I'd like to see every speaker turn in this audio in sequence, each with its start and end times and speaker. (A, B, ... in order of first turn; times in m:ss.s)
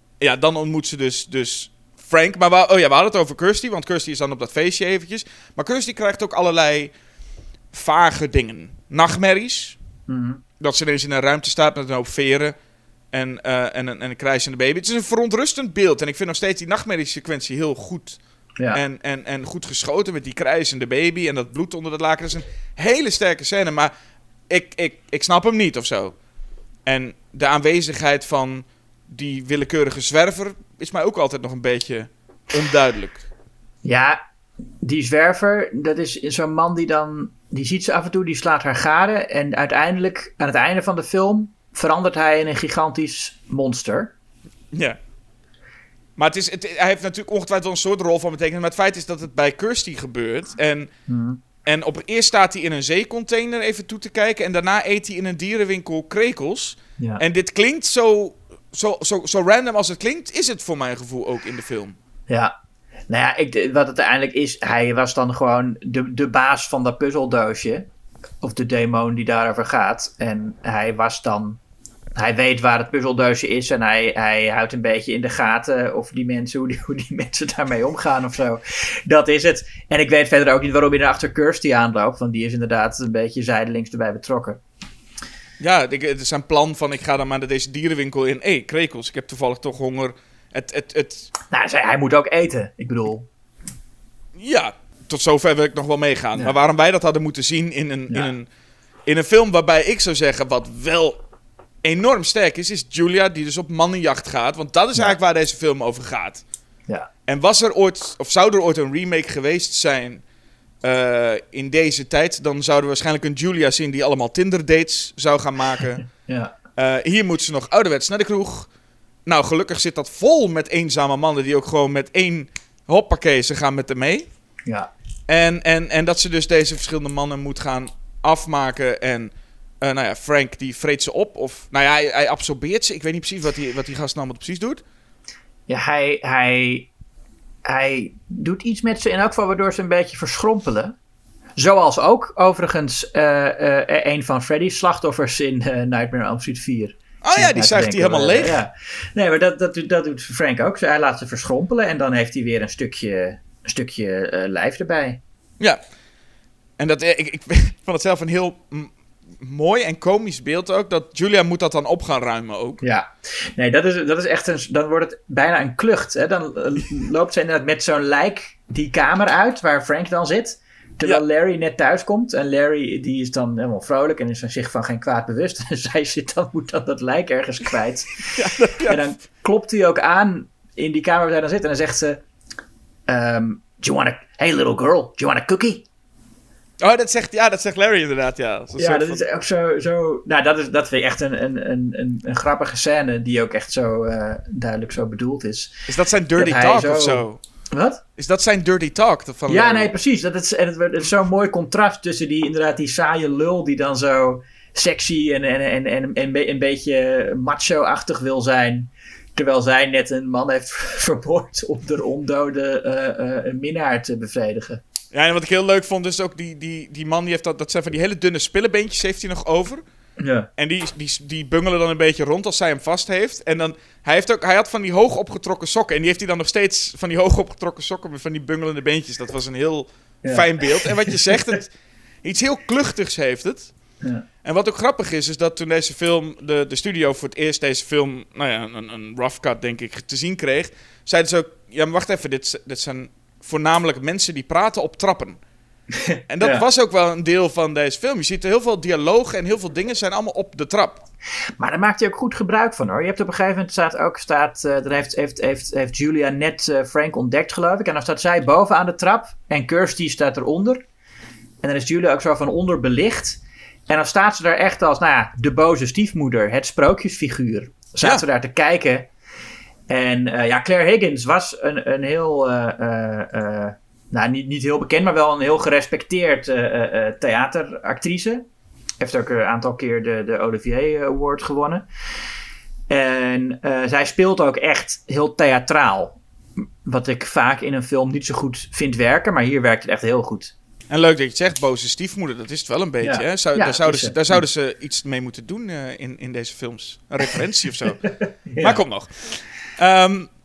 0:00.2-0:06.9 A
0:07.7-0:09.8 A
0:10.1-0:10.4 B
0:10.6-0:12.5 A
0:13.1-0:18.2 A
0:18.7-0:23.9 A
0:24.5-0:26.2 A
0:26.9-0:33.2 A
0:33.8-0:34.2 B
0:34.8-0:44.1 B
0:46.2-0:50.9 A
0:51.1-0:51.4 B
0:51.6-1:02.0 A
1:02.3-1:02.5 B
1:03.1-1:07.9 B
1:08.4-1:11.6 B
1:12.2-1:24.6 B
1:25.6-1:31.3 A
1:31.5-1:33.3 B
1:34.4-1:38.5 A
1:39.1-1:41.2 A
1:41.8-1:46.4 A
1:47.3-1:50.2 A
1:50.8-1:56.1 A
1:56.3-1:56.6 B
1:56.8-1:58.7 A
1:59.3-2:04.3 A
2:05.3-2:09.3 A
2:09.8-2:14.8 A
2:15.7-2:16.9 B
2:17.6-2:21.0 B
2:21.6-2:35.2 B
2:27.2-2:28.6 A
2:36.8-2:38.9 A
2:39.4-2:42.8 A
2:42.8-3:02.2 B
2:58.4-2:59.0 A
3:03.1-3:05.8 B
3:06.8-3:09.2 A
3:08.8-3:15.7 B
3:15.9-3:17.4 A
3:16.4-3:18.0 B
3:18.2-3:19.9 A
3:19.5-3:34.8 B
3:35.1-3:39.8 A
3:40.2-3:40.5 B
3:40.6-3:51.7 A
3:50.2-3:51.4 B
3:52.2-3:53.7 A
3:54.4-4:05.4 A
4:05.9-4:06.6 B
4:06.3-4:11.0 A
4:11.6-4:20.8 B
4:21.6-4:29.1 B
4:29.9-4:38.5 B
4:39.0-4:41.8 B
4:42.9-4:46.2 B
4:46.8-4:50.5 B
4:50.9-5:00.3 A
4:53.0-4:54.4 B
4:58.1-4:58.8 B